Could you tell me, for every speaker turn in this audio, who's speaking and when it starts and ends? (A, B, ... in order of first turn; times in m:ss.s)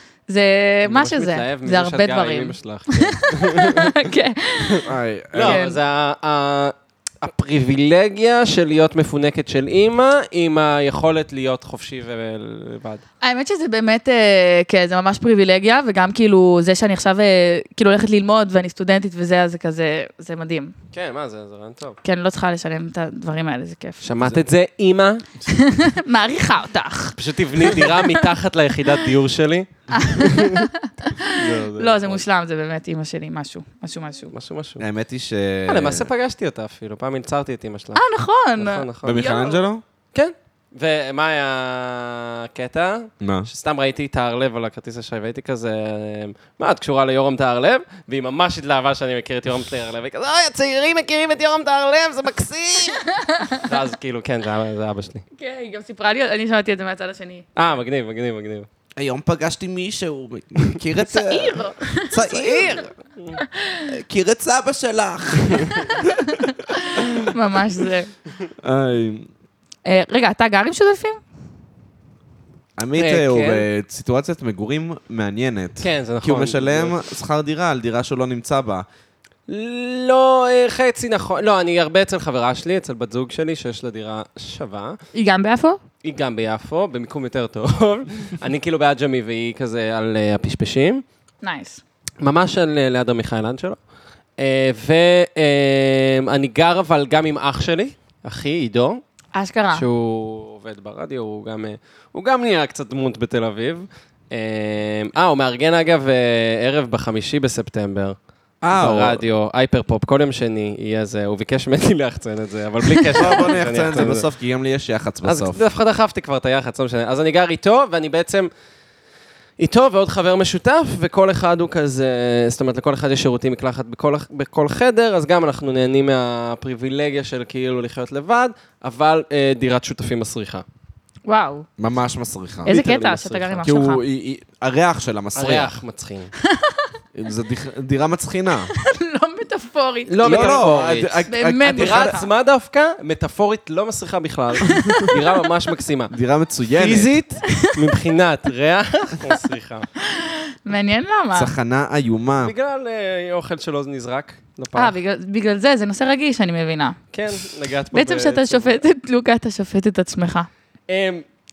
0:00.3-0:04.8 A
0:00.9-0:04.0 B
0:04.8-0:05.6 C
0:05.3-0:13.0 B
0:05.4-0:05.8 A
0:13.2-0:20.7 A
0:20.9-0:22.0 B
0:22.0-0:24.0 A
0:24.0-0:25.2 B
0:25.5-0:28.3 A
0:27.2-0:30.7 B
0:29.9-0:34.3 A
0:31.3-0:32.2 B
0:34.3-0:34.8 B
0:34.8-0:36.1 C
0:35.6-0:39.3 B
0:37.9-0:39.6 A
0:39.0-0:39.8 C
0:40.1-0:55.2 B
0:43.2-0:43.5 C
0:53.1-0:53.6 A
0:55.4-0:57.4 A
0:57.6-0:58.7 B
0:59.0-1:02.8 C
1:01.0-1:03.9 A
1:03.9-1:07.3 C
1:05.9-1:08.1 A
1:08.6-1:09.2 C
1:09.8-1:11.2 A
1:12.8-1:18.8 C
1:13.0-1:13.6 B
1:15.8-1:17.0 B
1:19.5-1:25.0 B
1:25.1-1:25.8 A
1:26.0-1:31.0 B
1:31.4-1:31.8 A
1:32.2-1:33.8 B
1:34.4-1:39.0 B
1:39.3-1:39.8 A
1:39.7-1:48.2 B
1:48.6-1:49.2 C
1:48.7-1:54.2 B
1:53.1-1:55.6 C
1:55.2-1:58.5 B
1:59.6-2:10.6 B
2:11.3-2:11.7 A
2:11.8-2:12.9 C
2:12.6-2:14.0 A
2:12.7-2:13.7 B
2:13.6-2:15.8 C
2:15.4-2:16.3 B
2:16.4-2:16.8 A
2:17.1-2:18.7 C
2:18.7-2:20.6 A
2:20.1-2:26.1 B
2:20.2-2:22.2 C
2:21.3-2:22.3 A
2:24.7-2:25.1 A
2:26.1-2:27.1 C
2:26.7-2:29.9 B
2:27.5-2:27.8 A
2:30.0-2:31.5 A
2:31.3-2:32.5 C
2:32.4-2:35.0 B
2:34.7-2:37.0 A
2:37.1-2:38.8 B
2:37.9-2:40.5 A
2:40.9-2:41.2 B